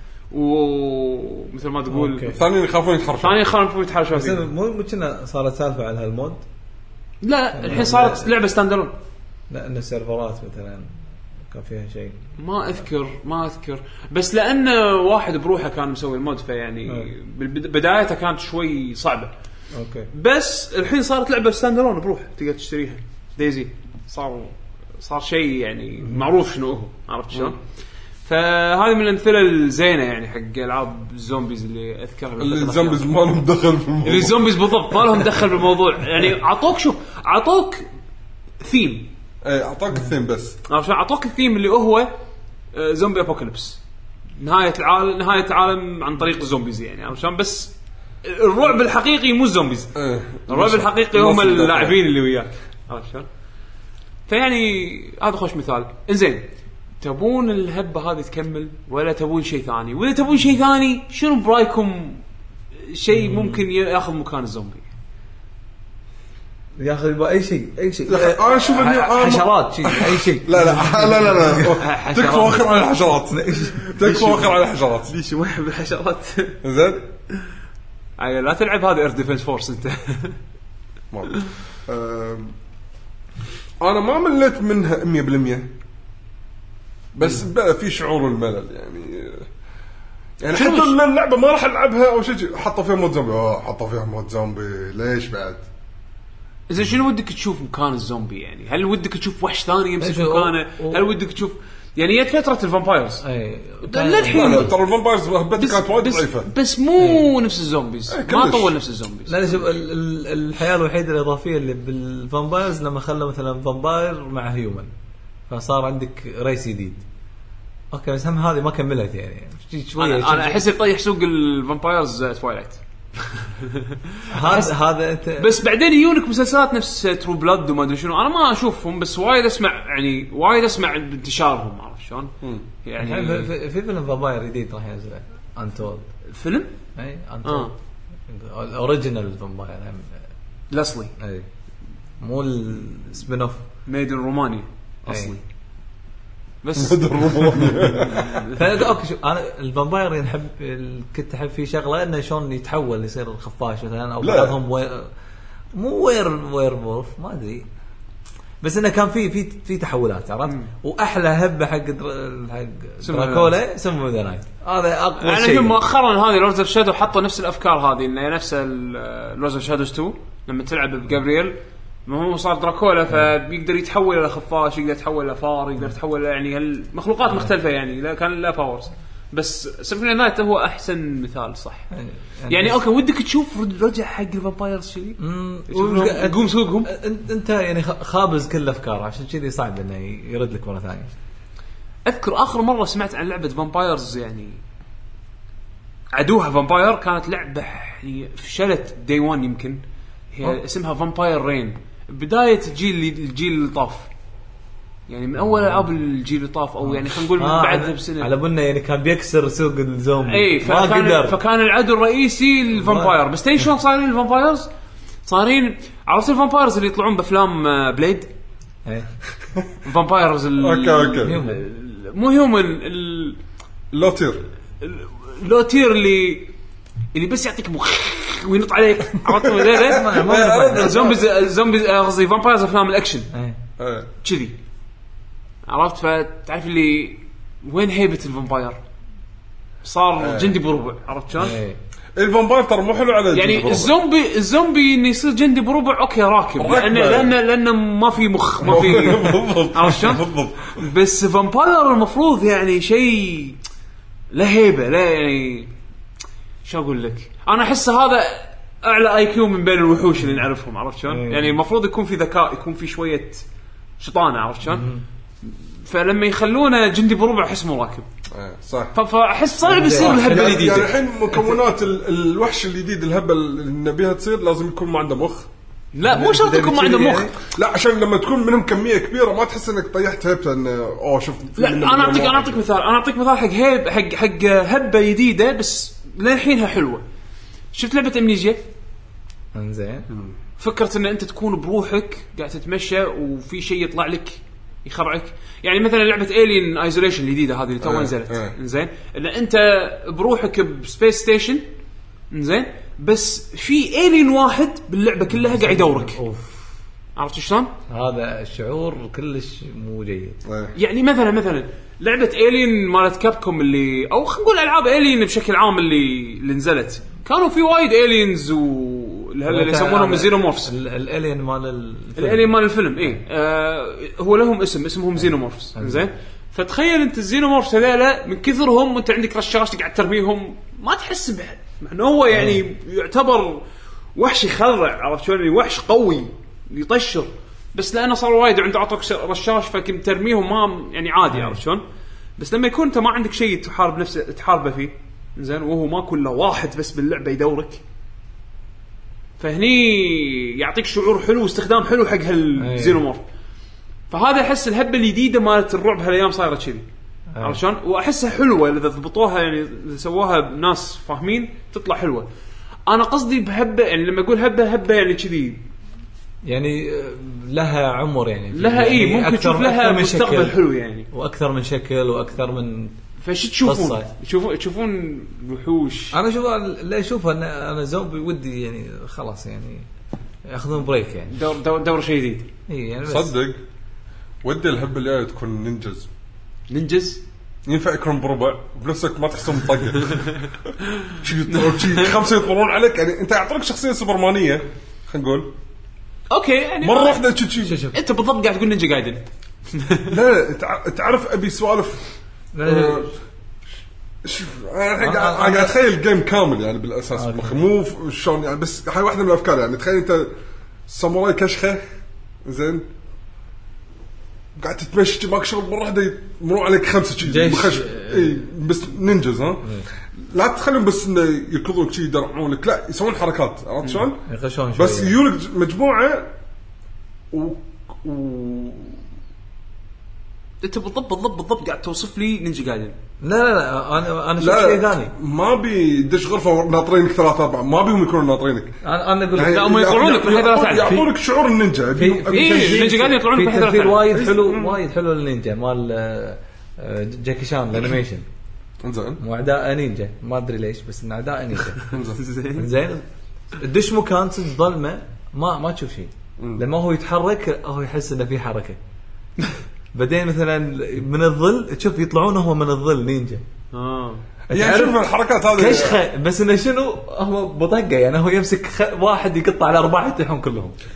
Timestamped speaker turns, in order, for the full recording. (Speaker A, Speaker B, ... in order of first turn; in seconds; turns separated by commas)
Speaker A: 0.3-2.4, Speaker B: 1.9-2.4, Speaker C: 2.3-3.5, Speaker A: 3.2-4.4, Speaker B: 4.1-6.4, Speaker A: 7.2-8.9, Speaker B: 7.5-8.3, Speaker B: 9.5-10.9, Speaker B: 11.5-12.2, Speaker A: 12.4-19.3, Speaker B: 19.7-20.1, Speaker A: 20.1-27.6, Speaker B: 26.0-26.3, Speaker A: 28.2-33.1, Speaker C: 32.4-34.6, Speaker A: 34.0-37.9, Speaker A: 38.6-39.1, Speaker C: 39.4-40.6, Speaker A: 40.7-42.1, Speaker A: 42.7-43.8, Speaker A: 44.4-49.9, Speaker C: 50.0-52.0, Speaker A: 50.5-53.3, Speaker A: 54.3-56.5, Speaker A: 57.0-62.2, Speaker A: 62.8-64.8, Speaker B: 63.1-63.6, Speaker B: 66.8-71.8, Speaker C: 68.1-75.1, Speaker A: 71.7-72.6, Speaker B: 73.3-73.8, Speaker A: 73.8-76.6, Speaker C: 76.6-77.0, Speaker A: 78.2-80.4, Speaker C: 81.1-82.5, Speaker C: 83.8-85.7, Speaker C: 87.1-89.5, Speaker C: 90.4-95.6, Speaker A: 90.5-91.0, Speaker A: 96.7-103.2, Speaker B: 100.0-101.0, Speaker B: 103.2-104.7, Speaker A: 103.8-104.7, Speaker C: 104.3-106.5, Speaker A: 105.6-109.6, Speaker B: 107.0-107.2, Speaker C: 108.1-108.8, Speaker B: 109.3-114.9, Speaker B: 115.5-117.0, Speaker B: 117.9-120.7, Speaker A: 120.0-124.7, Speaker B: 124.3-125.5, Speaker A: 125.4-133.5, Speaker B: 133.0-136.1, Speaker A: 136.3-136.7, Speaker B: 137.0-137.7, Speaker A: 137.4-137.7, Speaker B: 138.3-140.2, Speaker A: 140.7-141.1, Speaker B: 141.2-141.5, Speaker B: 142.2-143.6, Speaker A: 143.9-145.4, Speaker B: 145.1-145.4, Speaker A: 146.6-148.6, Speaker C: 146.8-148.3, Speaker B: 148.1-155.1, Speaker C: 154.2-154.6, Speaker B: 155.8-157.7, Speaker B: 158.6-165.8, Speaker A: 163.0-163.6, Speaker A: 165.2-181.9, Speaker B: 181.9-182.8, Speaker A: 182.5-186.9, Speaker B: 185.2-191.1, Speaker A: 192.1-194.6, Speaker A: 196.1-199.8, Speaker A: 200.3-204.1, Speaker A: 205.1-208.3, Speaker B: 206.8-211.4, Speaker A: 210.3-214.7, Speaker B: 212.8-213.2, Speaker A: 215.3-218.3, Speaker A: 219.8-223.4, Speaker C: 220.6-221.4, Speaker B: 221.2-221.6, Speaker C: 223.9-224.4, Speaker A: 224.8-226.5, Speaker A: 227.1-233.3, Speaker C: 229.3-231.2, Speaker B: 229.8-231.2, Speaker B: 233.3-233.6, Speaker C: 233.8-234.1, Speaker A: 234.2-234.6, Speaker A: 235.7-238.8, Speaker A: 239.8-241.6, Speaker C: 240.2-240.6, Speaker B: 241.4-241.8, Speaker C: 242.2-243.9, Speaker A: 243.3-253.6, Speaker C: 246.6-247.3, Speaker C: 248.6-250.8, Speaker A: 254.3-255.7, Speaker A: 256.6-263.4, Speaker B: 261.1-261.6, Speaker A: 264.0-264.9, Speaker B: 264.7-265.0, Speaker A: 265.4-268.1, Speaker C: 268.3-268.9, Speaker A: 268.9-270.9, Speaker B: 269.6-271.6, Speaker C: 270.0-275.5, Speaker A: 275.9-277.3, Speaker B: 276.1-277.4, Speaker C: 277.4-282.6, Speaker A: 281.6-287.0, Speaker A: 287.7-288.6, Speaker B: 289.5-290.1, Speaker A: 290.6-301.6, Speaker C: 297.8-298.5, Speaker A: 302.3-306.2, Speaker B: 305.3-306.8, Speaker A: 307.2-307.7, Speaker B: 307.9-310.4, Speaker C: 310.4-310.7, Speaker A: 310.8-320.7, Speaker B: 319.5-323.2, Speaker A: 322.2-333.6, Speaker B: 325.8-326.0, Speaker B: 332.3-332.6, Speaker A: 334.2-341.8, Speaker B: 341.3-341.6, Speaker A: 342.4-347.8, Speaker A: 349.4-353.2, Speaker B: 352.6-353.0, Speaker A: 354.1-356.9, Speaker B: 357.3-357.6, Speaker A: 357.4-362.3, Speaker A: 362.9-365.6, Speaker B: 366.4-370.6, Speaker A: 368.5-371.1, Speaker B: 371.1-373.0, Speaker A: 373.2-376.2, Speaker B: 373.6-374.1, Speaker B: 376.1-379.9, Speaker B: 380.5-381.3, Speaker A: 381.3-382.5, Speaker B: 382.7-383.3, Speaker C: 383.1-383.6, Speaker C: 384.4-386.1, Speaker A: 386.7-387.2, Speaker C: 387.7-390.4, Speaker A: 390.8-392.1, Speaker C: 391.1-395.5, Speaker A: 396.3-397.2, Speaker C: 396.8-397.8, Speaker B: 397.6-398.0, Speaker A: 397.9-400.1, Speaker C: 400.1-402.0, Speaker B: 402.5-403.1, Speaker C: 402.6-403.1, Speaker C: 404.2-410.3, Speaker B: 405.0-405.8, Speaker B: 407.2-407.6, Speaker C: 410.9-411.8, Speaker C: 412.4-412.9, Speaker C: 414.6-419.7, Speaker B: 417.2-418.4, Speaker C: 420.3-424.2, Speaker B: 424.2-425.1, Speaker C: 424.8-426.3, Speaker C: 427.3-429.0, Speaker A: 430.6-433.0, Speaker B: 433.2-435.1, Speaker C: 434.4-438.8, Speaker B: 438.8-439.8, Speaker C: 439.3-443.0, Speaker A: 439.4-441.0, Speaker B: 441.9-448.3, Speaker A: 442.3-444.1, Speaker C: 444.1-444.8, Speaker C: 448.8-449.2, Speaker B: 449.2-451.9, Speaker A: 451.9-452.7, Speaker C: 451.9-452.2, Speaker B: 452.6-453.1, Speaker B: 453.6-458.8, Speaker B: 459.9-463.4, Speaker A: 463.7-464.2, Speaker B: 464.5-465.0, Speaker C: 464.5-466.0, Speaker B: 465.5-470.8